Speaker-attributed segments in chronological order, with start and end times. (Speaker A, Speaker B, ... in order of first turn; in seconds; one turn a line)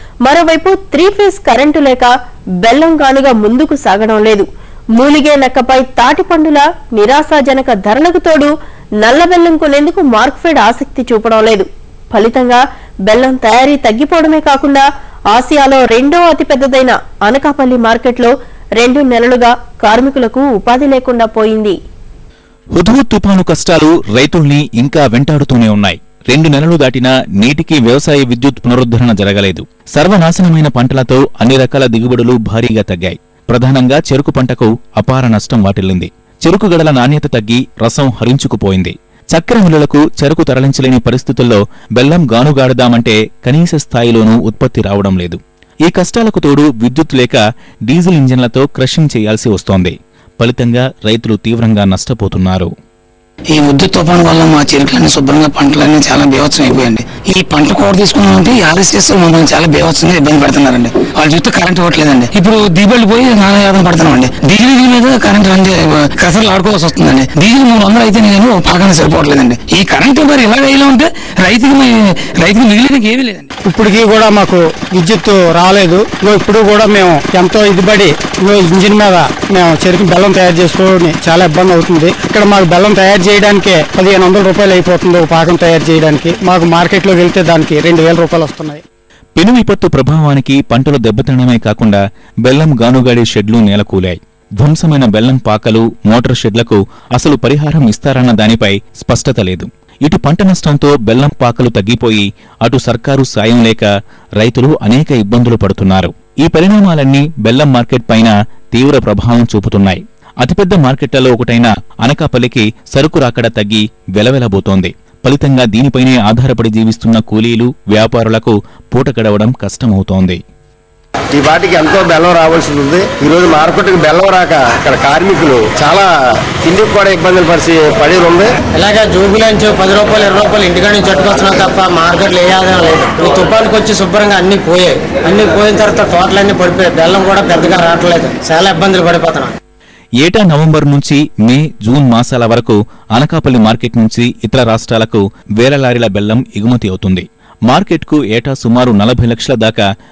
Speaker A: 0.2-2.1
Speaker A: 2.6-4.5
Speaker A: 5.0-8.5
Speaker A: 9.0-21.7
Speaker B: 22.8-52.7
Speaker C: 53.5-73.5
Speaker D: 73.7-88.8
Speaker B: 89.4-103.9
Speaker B: 104.4-120.4
Speaker E: 121.3-126.0
Speaker E: 126.6-128.4
Speaker F: 128.7-139.5
Speaker B: 140.2-149.8